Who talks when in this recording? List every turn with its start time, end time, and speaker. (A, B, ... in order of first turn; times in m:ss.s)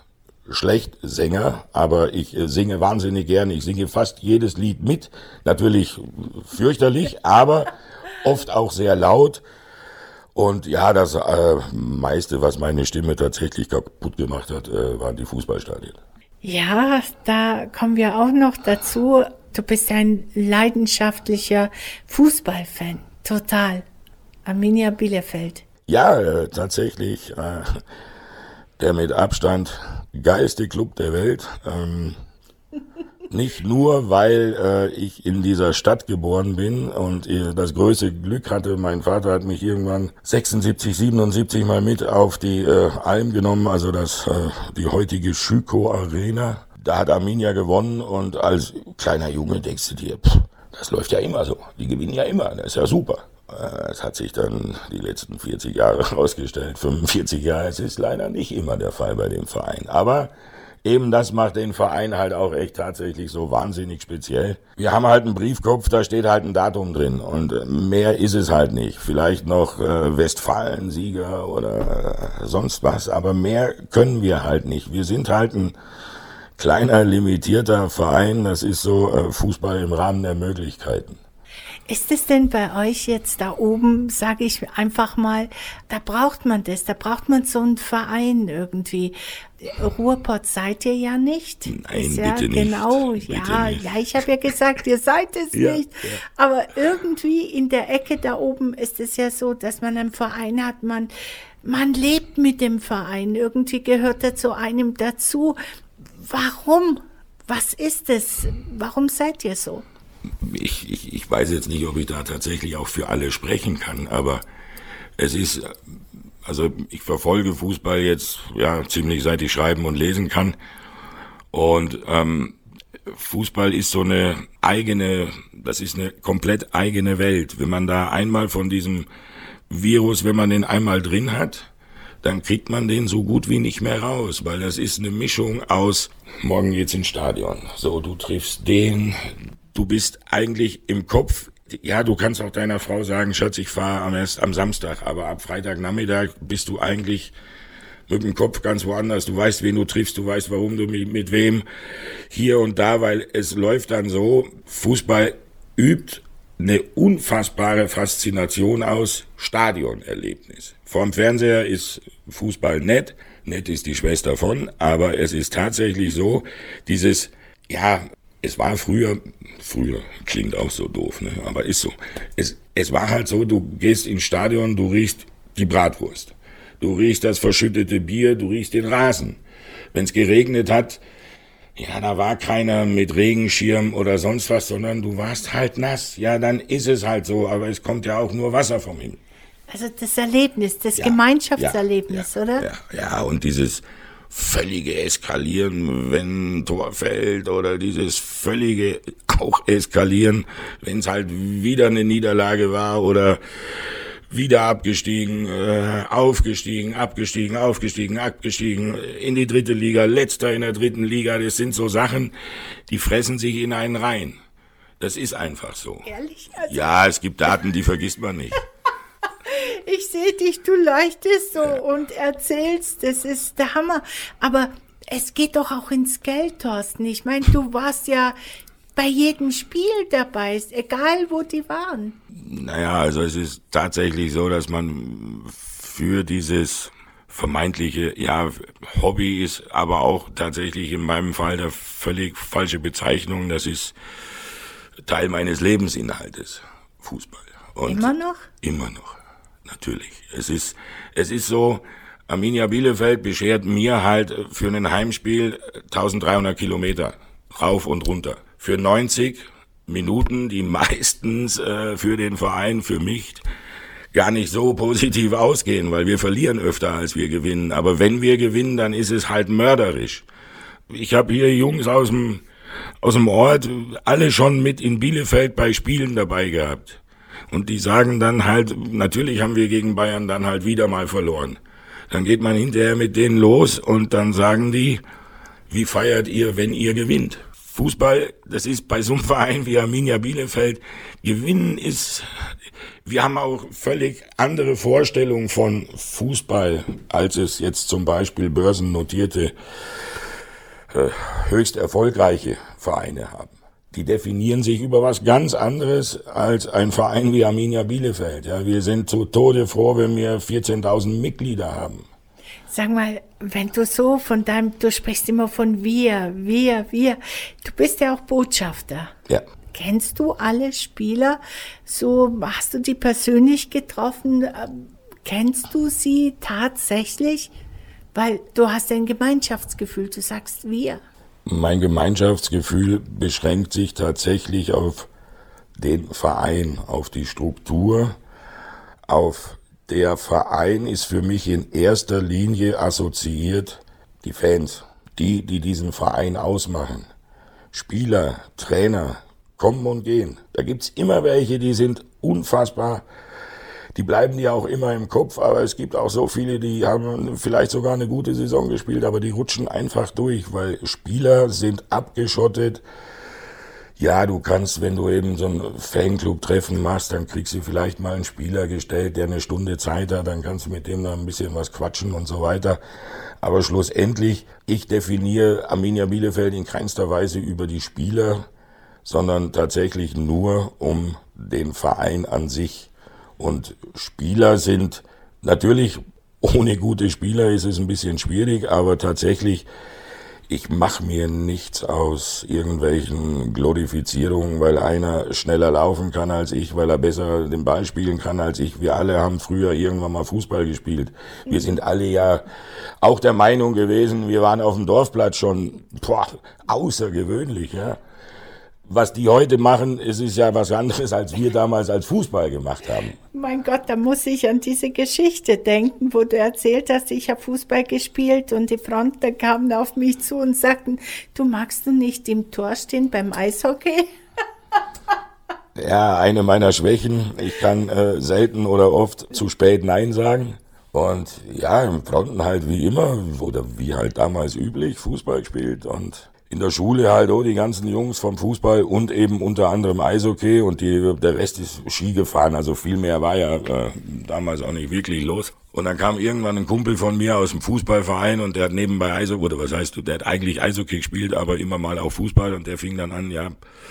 0:00.5-0:09.4 A
0:10.3-0:16.0 A
0:16.4-0:23.8 B
0:24.4-0:25.6 B
0:25.9-0:27.8 A
0:28.8-0:32.2 A
0:33.3-1:00.3 A
1:00.8-1:15.7 A
1:16.6-1:21.2 A
1:21.9-1:41.1 B
1:31.7-1:33.9 A
1:35.5-1:36.2 A
1:41.6-1:45.6 B
1:46.2-1:49.8 B
1:50.3-1:54.4 A
1:55.2-1:55.8 A
1:56.4-2:00.6 A
2:01.5-2:02.6 A
2:03.1-2:09.1 A
2:09.7-2:11.7 A
2:12.2-2:27.3 A
2:28.1-2:31.6 A
2:32.3-2:59.4 A
2:59.9-3:01.0 A
3:01.8-3:09.2 A
3:09.7-3:12.7 B
3:11.0-3:32.3 A
3:32.9-3:34.4 A
3:35.0-3:36.0 A
3:36.0-3:36.8 B
3:36.6-3:38.6 A
3:39.4-3:48.4 B
3:49.0-3:52.2 B
3:52.3-4:04.0 A
4:05.0-4:23.4 A
4:07.8-4:08.5 B
4:24.1-4:30.2 A
4:30.9-4:32.4 A
4:33.0-4:41.6 A
4:42.1-4:45.0 A
4:45.7-4:52.2 A
4:53.0-4:59.5 A
5:00.9-5:12.0 A
5:12.7-5:19.1 B
5:19.7-5:27.5 B
5:28.1-5:31.0 B
5:31.4-5:35.1 A
5:35.8-5:38.2 A
5:39.1-5:47.1 A
5:47.7-5:53.0 A
5:53.9-6:02.8 A
6:04.0-6:12.8 A
6:13.4-6:18.5 A
6:19.0-6:29.7 A
6:30.5-6:42.4 A
6:43.0-6:48.0 A
6:48.8-6:53.2 A
6:53.3-7:04.0 B
7:05.7-7:33.6 A